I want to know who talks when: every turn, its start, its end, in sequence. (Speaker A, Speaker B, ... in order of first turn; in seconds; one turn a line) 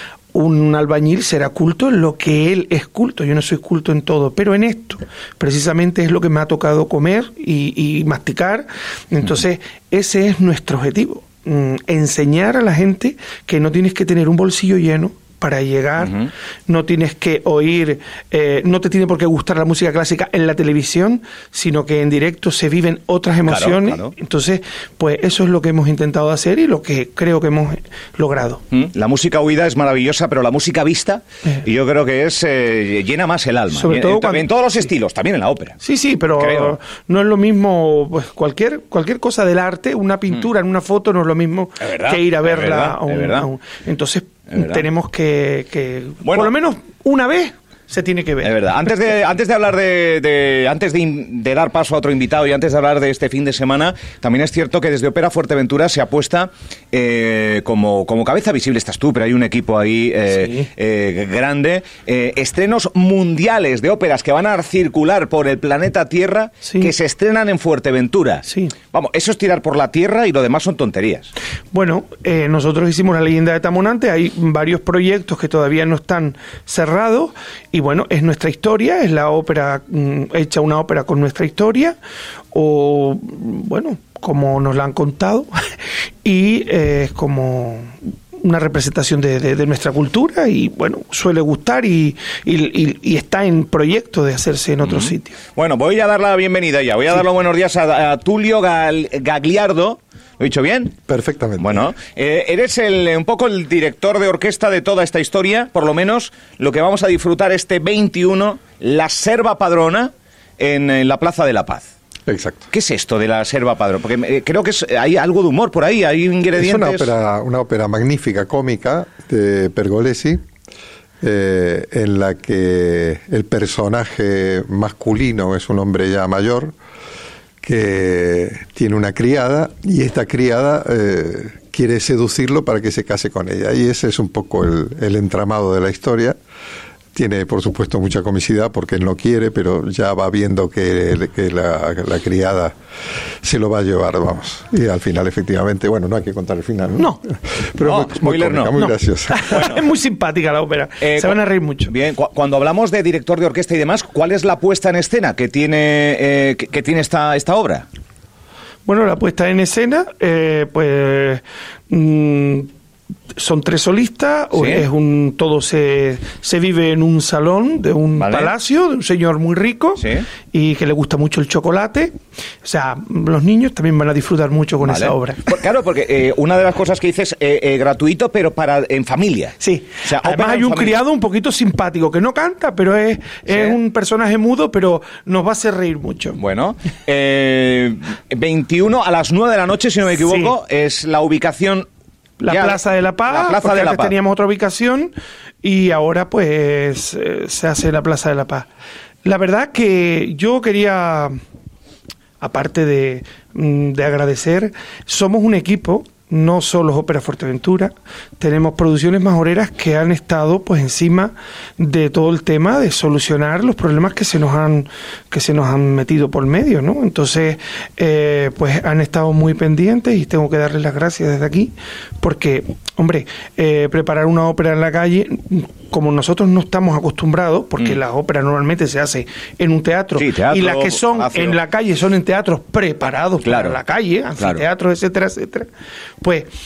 Speaker A: 0.3-28.6
Speaker B: 16.0-16.3
Speaker B: 23.4-24.1
Speaker B: 28.7-35.8
Speaker A: 33.7-34.9
Speaker A: 35.8-48.9
Speaker B: 36.4-36.8
Speaker B: 41.8-43.5
Speaker B: 44.5-44.9
Speaker B: 46.2-46.5
Speaker B: 48.4-71.3
Speaker A: 60.3-60.6
Speaker A: 66.6-66.9
Speaker A: 68.4-68.7
Speaker A: 71.7-82.0
Speaker A: 82.5-95.4
Speaker B: 94.8-100.9
Speaker C: 101.1-101.9
Speaker B: 101.6-111.9
Speaker C: 112.3-112.7
Speaker B: 112.7-117.1
Speaker C: 116.5-120.4
Speaker C: 121.2-126.7
Speaker C: 127.6-136.4
Speaker C: 137.1-142.7
Speaker C: 143.4-149.5
Speaker A: 147.0-147.2
Speaker B: 147.8-148.7
Speaker A: 148.8-151.9
Speaker B: 149.4-149.8
Speaker B: 151.0-157.8
Speaker A: 158.8-162.7
Speaker A: 163.3-175.5
Speaker B: 164.5-164.8
Speaker B: 168.2-168.5
Speaker B: 170.0-170.2
Speaker B: 174.8-181.0
Speaker A: 179.6-186.4
Speaker B: 183.5-183.8
Speaker B: 186.3-191.9
Speaker A: 190.2-190.5
Speaker A: 192.4-198.7
Speaker B: 192.5-194.1
Speaker A: 199.2-201.3
Speaker A: 202.4-235.7
Speaker B: 230.2-231.6
Speaker B: 233.4-233.8
Speaker A: 236.2-236.5